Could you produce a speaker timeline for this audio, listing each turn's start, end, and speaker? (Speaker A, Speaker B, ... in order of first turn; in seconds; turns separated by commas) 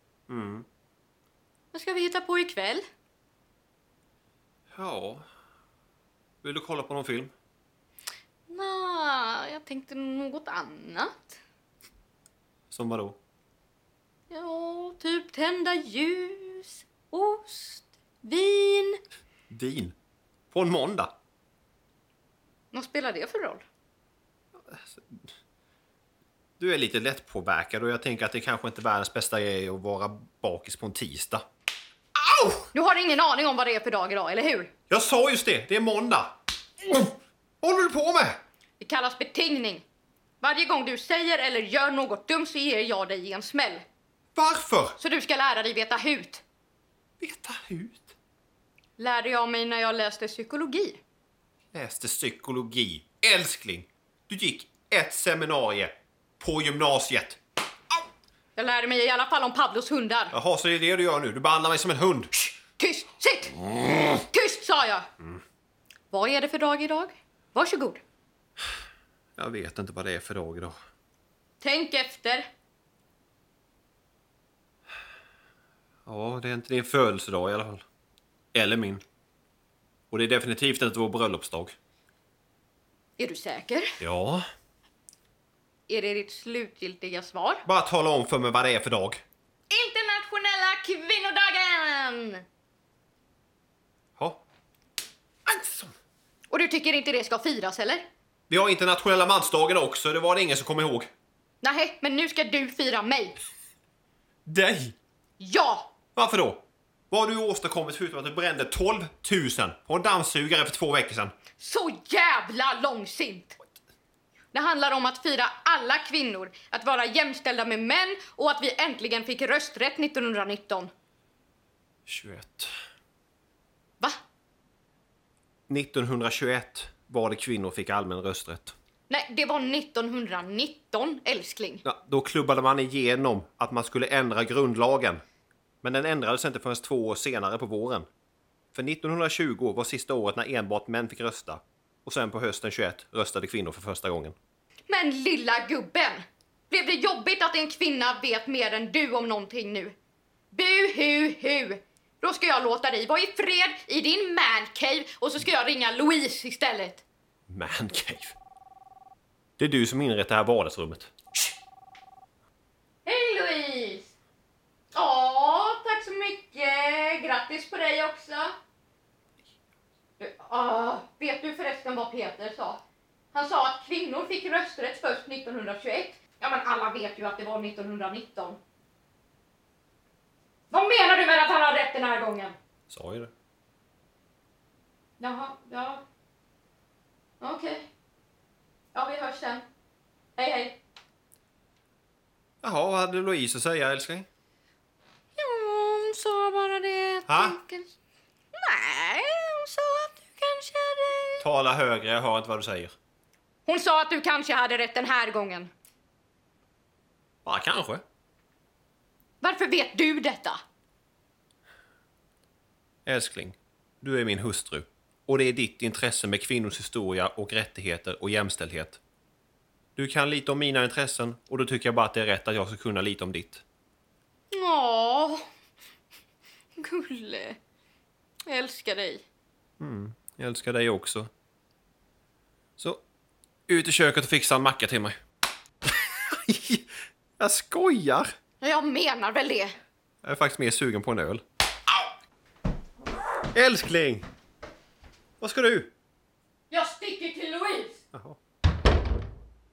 Speaker A: 0.3-0.7, Speaker B: 1.7-2.9, Speaker A: 4.7-5.3, Speaker A: 6.4-7.3, Speaker B: 8.5-11.4, Speaker A: 12.7-13.2, Speaker B: 14.3-19.0, Speaker A: 19.5-19.9, Speaker A: 20.5-21.1, Speaker B: 22.7-23.6, Speaker A: 24.6-25.3, Speaker A: 26.6-31.4, Speaker A: 32.2-32.7, Speaker B: 32.7-34.7, Speaker A: 34.9-36.3, Speaker A: 36.8-38.4, Speaker B: 38.8-39.9, Speaker B: 40.4-43.8, Speaker A: 44.4-45.0, Speaker B: 45.0-46.4, Speaker A: 47.2-48.1, Speaker B: 49.0-51.0, Speaker A: 51.7-57.4, Speaker B: 58.6-60.3, Speaker A: 60.3-62.3, Speaker B: 62.3-65.1, Speaker B: 66.1-68.0, Speaker A: 69.4-70.8, Speaker B: 71.6-72.5, Speaker A: 76.1-77.8, Speaker A: 78.5-79.0, Speaker A: 80.1-81.7, Speaker B: 83.2-84.0, Speaker A: 84.0-84.4, Speaker B: 85.9-87.7, Speaker A: 87.7-89.2, Speaker B: 89.7-92.4, Speaker A: 94.2-94.4, Speaker A: 95.5-95.9, Speaker B: 96.5-98.0, Speaker A: 98.5-101.1, Speaker B: 101.6-103.4, Speaker A: 104.5-105.0, Speaker B: 105.4-105.9, Speaker A: 106.2-111.3, Speaker B: 111.6-113.6, Speaker B: 114.5-120.9, Speaker A: 122.1-122.7, Speaker A: 125.7-128.7, Speaker B: 129.1-131.8, Speaker A: 131.8-135.2, Speaker A: 135.8-138.1, Speaker A: 138.7-144.3, Speaker B: 144.9-150.0, Speaker B: 150.5-157.0, Speaker A: 157.5-158.4, Speaker A: 159.6-161.1, Speaker B: 163.1-164.1, Speaker B: 164.9-168.5, Speaker B: 170.2-172.8, Speaker B: 173.3-178.6, Speaker B: 180.7-182.6, Speaker A: 182.9-183.3, Speaker B: 185.2-186.0, Speaker B: 187.4-187.9, Speaker B: 188.9-189.7, Speaker B: 190.4-190.8, Speaker A: 192.6-194.3, Speaker B: 195.4-197.9, Speaker A: 197.3-197.6, Speaker B: 198.6-201.5, Speaker A: 201.4-202.9, Speaker B: 203.7-205.7, Speaker A: 207.4-208.0, Speaker B: 209.4-210.6, Speaker A: 213.1-219.0, Speaker A: 220.0-223.6, Speaker B: 224.5-225.4, Speaker B: 226.8-227.6, Speaker B: 228.5-229.2, Speaker A: 229.8-231.3, Speaker A: 233.7-235.2, Speaker A: 235.9-238.3, Speaker B: 238.6-239.7, Speaker A: 240.2-241.4, Speaker A: 243.5-244.3, Speaker A: 245.4-245.9, Speaker B: 246.7-248.0, Speaker A: 248.1-248.4